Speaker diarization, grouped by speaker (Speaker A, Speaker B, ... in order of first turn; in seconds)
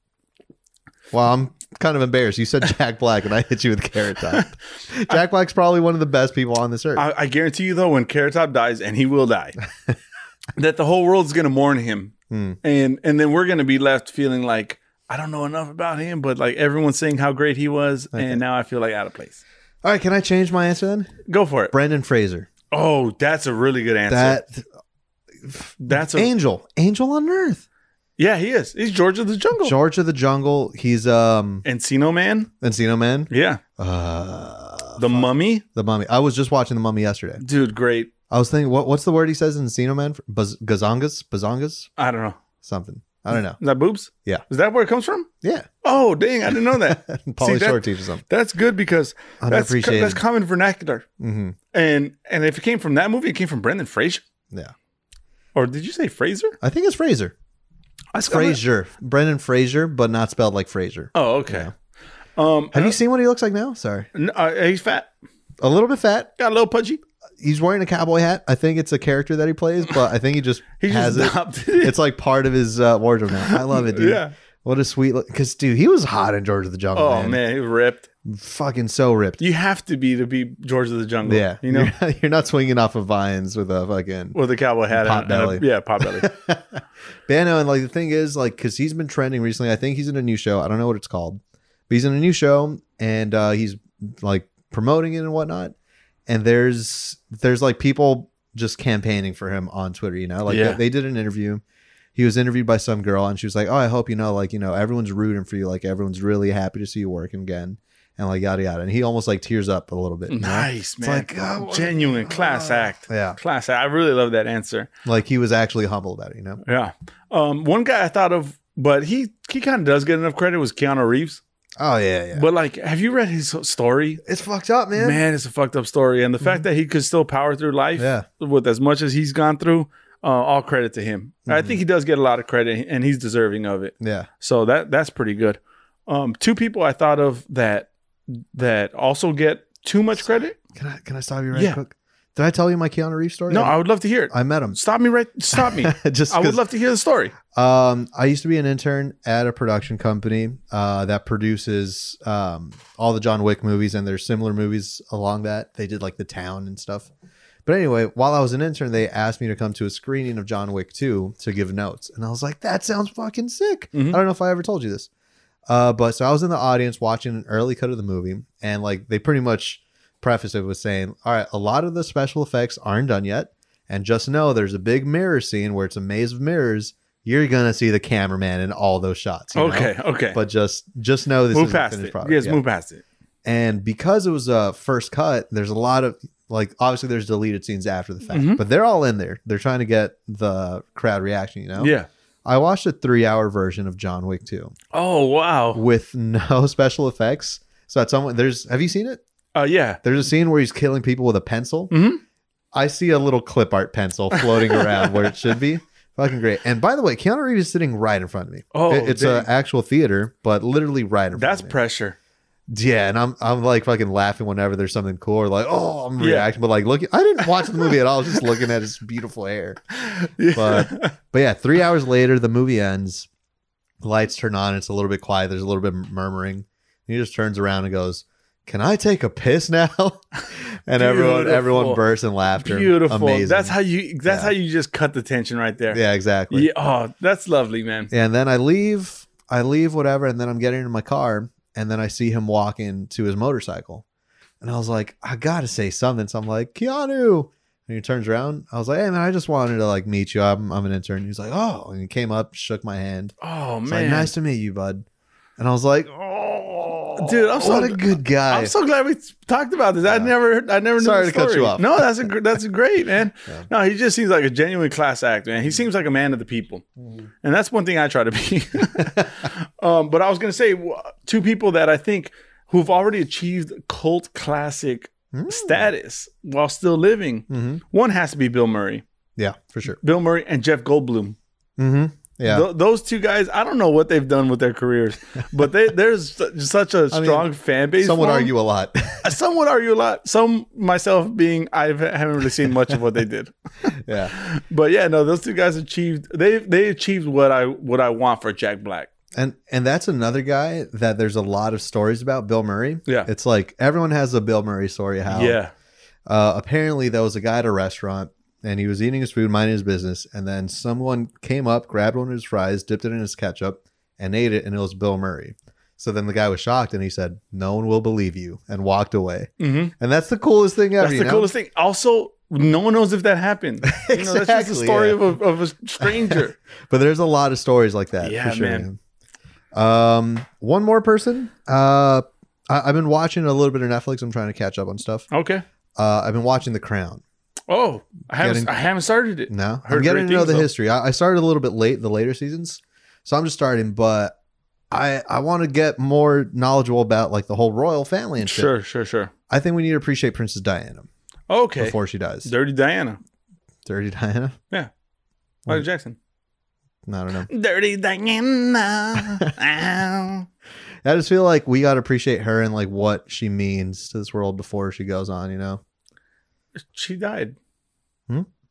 Speaker A: 1.1-7.1, 12.3-12.6, 18.1-18.4, 19.8-21.1, 21.7-22.5, 24.1-24.7, 25.4-27.6, 29.6-31.6, 32.6-37.4, 38.3-41.9, 42.6-43.6, 45.4-45.7, 46.7-48.2, 49.4-50.2, 51.2-51.6, 56.6-57.3, 58.2-61.7, 62.7-64.1, 65.6-66.3, 67.4-77.4, 78.2-79.4, 81.2-84.4, 84.9-95.8, 96.3-101.6, 102.2-113.4, 115.0-116.6, 121.8-122.5, 124.2-125.2, 128.0-128.2, 131.5-131.8, 134.0-134.3, 140.7-143.8, 144.3-144.8, 145.5-146.6, 147.5-157.1, 157.7-165.1, 165.7-182.6, 183.4-191.9, 192.4-194.8, 195.7-199.2, 200.0-201.9, 202.7-211.8, 212.7-219.8, 220.5-223.3, 224.0-234.5, 235.9-236.7, 238.1-244.0, 244.6-253.3, 253.9-255.1, 255.6-258.7, 260.1-260.3, 261.0-262.2, 269.0-269.3, 275.3-275.9, 277.5-277.8, 279.4-280.0, 281.8-282.7, 287.1-287.5, 288.0-289.3, 293.9-294.3, 299.4-305.6, 306.3-321.5, 323.9-325.2, 326.0-329.0, 329.7-335.3, 336.0-337.2, 338.4-338.7, 339.5-344.4, 344.9-348.7, 349.5-351.1, 351.8-352.5, 353.9-354.6, 357.1-357.5, 361.0-365.8
Speaker B: 7.0-9.6, 10.6-19.4, 21.3-21.7, 22.7-24.4, 25.8-26.3, 28.2-29.8, 31.6-32.5, 33.3-33.6, 35.0-35.6, 37.4-38.1, 42.0-42.4, 43.6-45.3, 45.8-51.0, 51.7-54.2, 55.5-56.6, 58.1-58.6, 61.1-61.7, 62.4-63.0, 64.1-65.1, 66.4-67.0, 70.8-72.0, 73.5-74.3, 76.9-78.0, 79.4-81.9, 84.3-86.3, 100.5-100.8, 110.3-114.9, 116.7-121.4, 122.3-124.2, 125.0-140.6, 141.5-141.8, 143.5-147.3, 163.9-164.2, 179.5-180.4, 181.5-183.0, 188.3-188.6, 191.8-192.1, 194.9-195.8, 199.6-200.0, 201.9-202.2, 204.4-205.3, 208.7-209.5, 211.3-212.2, 216.2-216.5, 220.0-221.2, 231.0-232.0, 232.6-238.1, 253.4-254.3, 257.2-266.8, 267.4-279.0, 280.0-281.4, 282.4-288.5, 289.2-299.1, 305.3-305.7, 319.6-319.9, 321.0-326.6, 328.2-328.9, 335.3-335.6, 337.7-340.7, 348.4-349.3, 351.5-353.2, 355.7-356.2, 357.5-360.5, 366.9-367.6